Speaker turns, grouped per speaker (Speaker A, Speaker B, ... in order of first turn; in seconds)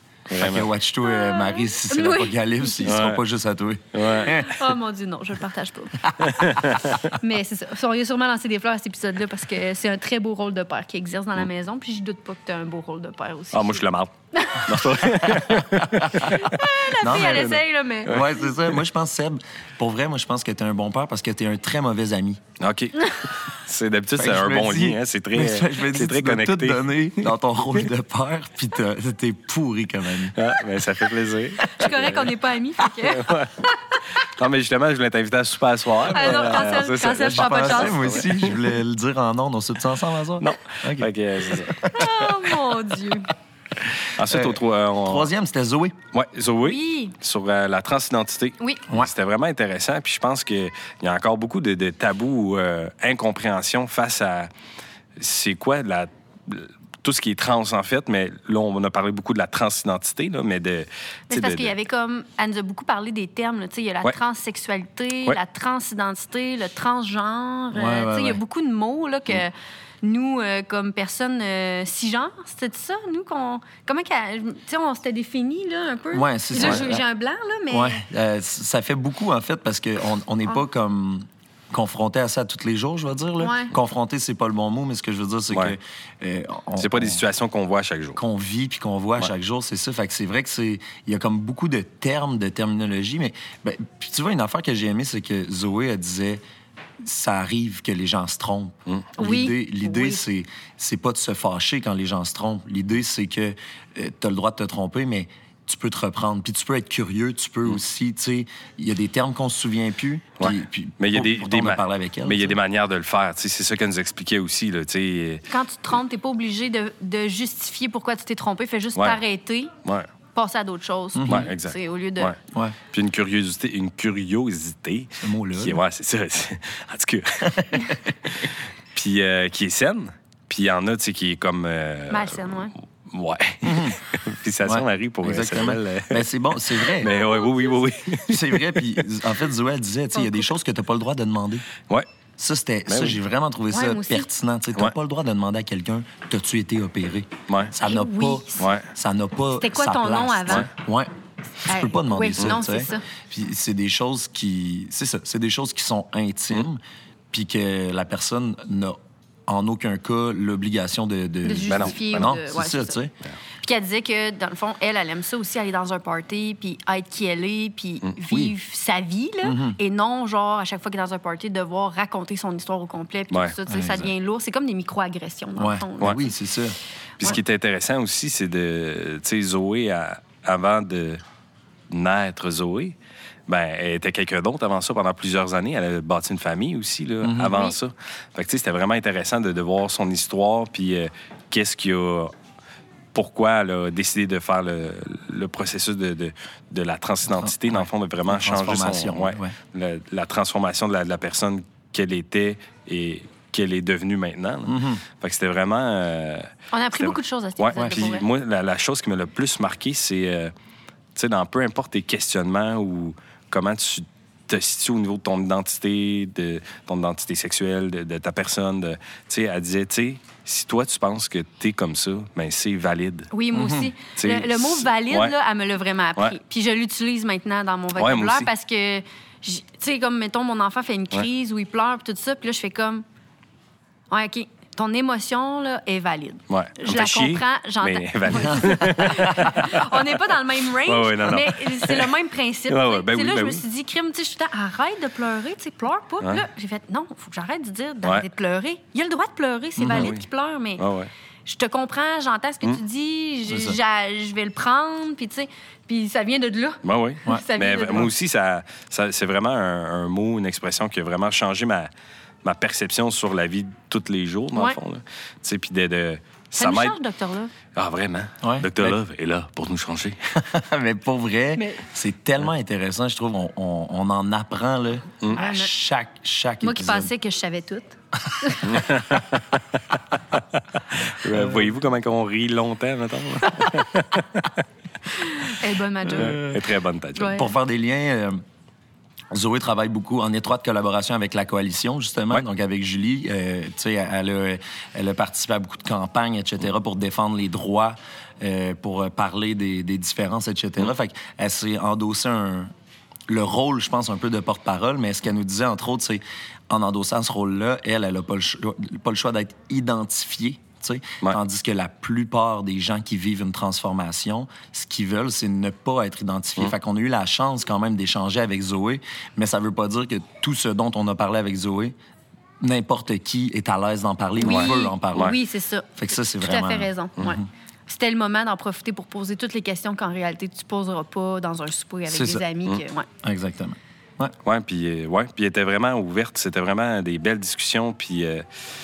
Speaker A: 0.3-0.7, 2.8-3.2, 3.9-4.3, 6.2-7.1, 13.5-16.5, 22.6-27.3, 30.3-32.3, 32.9-38.6, 40.4-41.8, 44.0-45.3, 46.1-54.5, 55.2-61.7, 86.8-88.2, 110.4-115.4, 121.2-122.3, 122.9-136.2, 136.8-139.0, 142.9-143.2, 148.6-148.9, 161.7-162.3, 177.2-181.2, 181.9-182.9, 183.5-192.3, 193.1-210.5, 211.1-223.3, 224.2-225.3, 227.9-228.5, 236.5-240.2, 240.8-242.1, 242.7-243.6, 249.9-250.2, 250.8-251.1, 256.8-261.9, 262.4-266.9, 267.7-270.2, 278.6-279.6, 281.1-284.6, 286.1-287.4, 324.4-325.4, 334.4-338.4
Speaker B: 0.3-4.5, 15.2-22.4, 24.2-30.4, 36.3-42.4, 44.2-46.0, 67.7-68.4, 76.1-77.0, 77.7-87.2, 88.2-96.4, 97.0-112.6, 121.1-121.5, 125.2-125.8, 127.5-128.0, 133.6-134.0, 134.6-137.1, 138.3-141.7, 142.4-151.1, 151.6-156.8, 157.3-158.9, 159.5-163.1, 169.4-169.8, 173.7-174.1, 175.6-177.4, 187.2-187.6, 197.3-199.5, 204.7-205.0, 207.8-208.1, 223.5-223.9, 238.4-239.5, 249.8-250.1, 253.5-253.8, 268.4-269.0, 270.3-277.1, 281.3-281.6, 286.2-286.4, 287.3-288.4, 289.3-302.7, 303.3-321.9, 322.6-325.4, 326.0-327.4, 332.1-332.4, 333.2-334.3
Speaker C: 1.0-3.1, 4.2-6.5, 7.1-14.8, 16.1-18.4, 31.6-34.0, 36.0-38.3, 41.8-43.3, 46.6-47.1, 61.3-78.0, 83.4-83.7, 99.2-100.2, 115.5-119.7, 120.3-122.3, 132.1-132.7, 137.0-137.8, 140.1-140.4, 143.7-144.3, 147.8-148.7, 149.6-150.7, 151.6-153.0, 161.4-163.0, 163.6-176.3, 187.5-187.8, 206.7-208.3, 223.3-233.0, 234.1-250.8, 251.4-258.1, 266.6-267.5, 271.6-271.8, 275.3-275.7, 276.6-278.8, 285.1-286.5, 287.1-287.5, 324.4-333.1